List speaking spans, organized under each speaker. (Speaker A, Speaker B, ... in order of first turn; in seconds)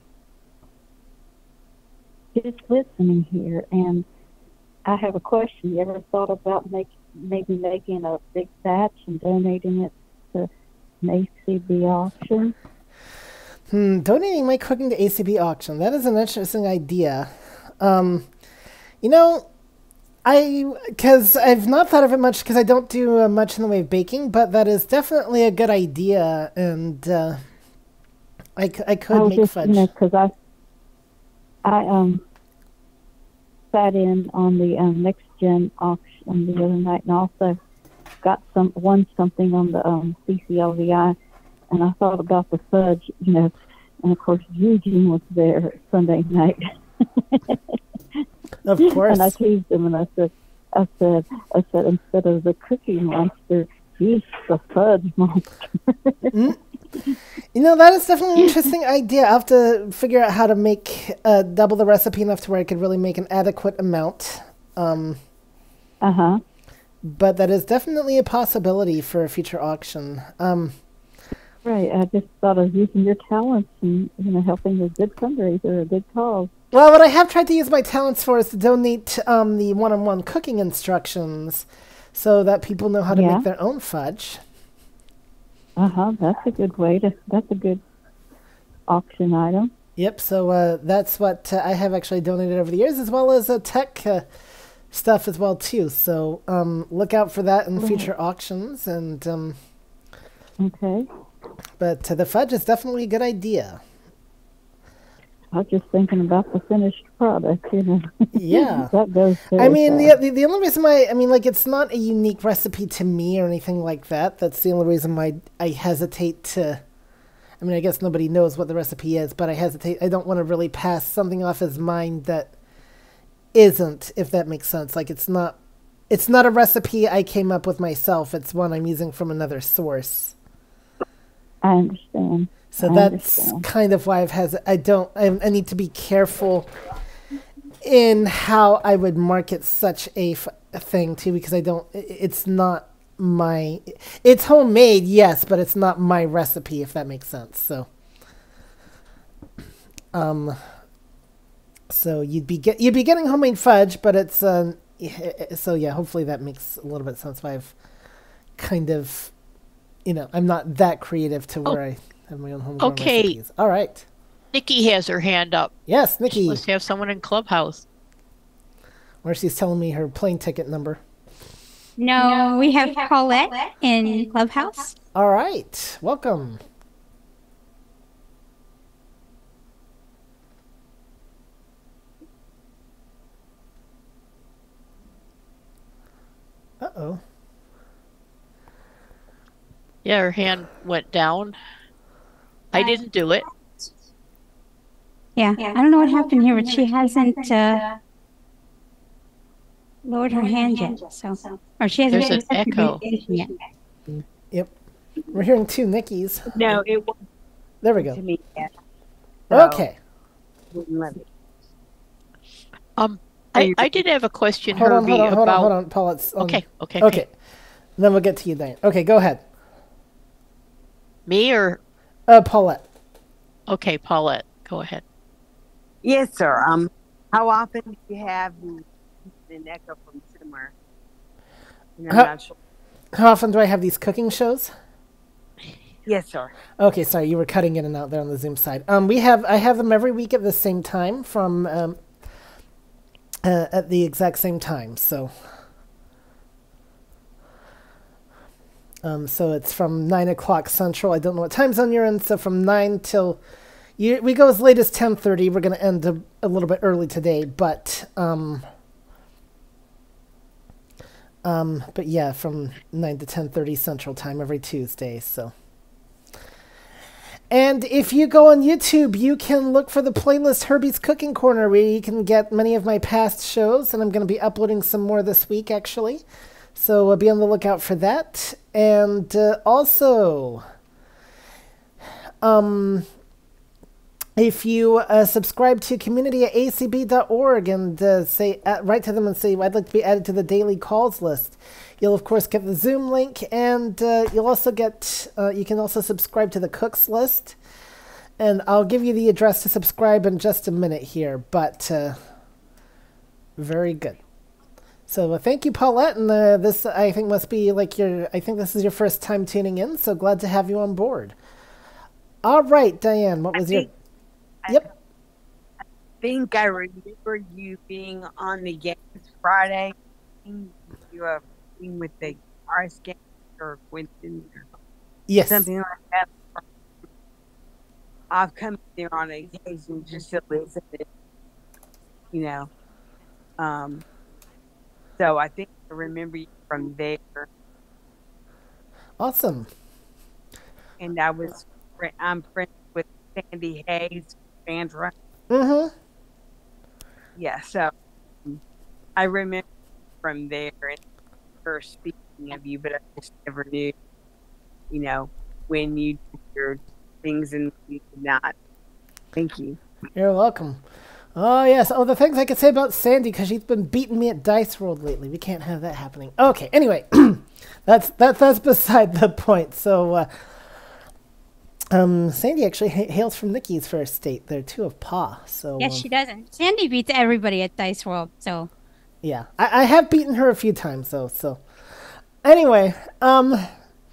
Speaker A: 2.3-4.0, 4.8-10.5, 11.0-12.5, 29.1-30.3, 31.6-32.2, 33.7-37.6, 38.2-41.1, 41.7-47.8, 48.9-56.3, 66.0-66.4, 71.6-76.5, 83.1-83.4, 85.8-87.8, 88.9-89.7, 97.8-98.1, 100.6-101.1, 105.5-110.2, 131.6-133.6
Speaker B: 13.7-18.3, 19.0-19.4, 20.2-27.4, 28.6-29.9, 48.6-49.3, 56.3-56.6, 57.5-65.2, 67.0-70.8, 76.7-84.4, 90.0-94.2, 94.9-99.6, 101.8-103.8, 108.3-108.9, 109.5-116.8, 117.6-122.5, 123.5-125.5, 126.1-130.3, 132.7-136.7, 137.8-147.9, 150.1-150.6, 151.9-157.7, 158.6-159.3, 160.1-164.1, 165.9-166.6, 169.2-171.0, 175.1-176.6, 186.8-187.2, 205.3-206.8, 207.8-208.2, 209.5-209.9, 214.7-217.3, 218.0-219.4, 222.3-222.8, 233.1-234.7, 236.8-242.0, 243.4-245.3, 249.0-253.4, 254.0-258.6, 261.4-265.5, 267.5-276.2, 276.8-280.6, 282.4-283.1, 284.4-297.6, 298.4-302.2, 303.6-304.2, 305.1-311.4, 312.4-313.9, 325.3-325.7, 339.2-339.7, 345.5-345.9, 360.1-360.8, 361.4-370.3, 371.9-376.1, 379.2-381.6, 382.4-383.7
Speaker C: 162.8-163.4, 164.5-165.7, 166.3-167.8, 190.0-191.6, 192.7-193.4, 202.1-203.0, 213.0-215.7, 216.4-217.2, 221.2-221.8, 223.7-225.0
Speaker D: 172.0-174.9, 195.4-197.8, 200.1-203.5, 375.8-378.7
Speaker E: 206.5-207.2, 208.0-208.7, 209.5-209.8, 210.7-211.3, 213.5-214.0, 226.0-230.7, 232.0-232.5, 236.1-236.5, 313.5-313.9, 314.6-314.9, 316.2-324.7, 325.4-326.6, 328.3-331.0, 332.3-332.7, 333.6-334.0, 335.2-337.5, 341.0-345.1, 347.4-347.9, 349.1-349.6, 350.2-351.0, 351.6-353.9, 354.9-358.5, 359.4-359.8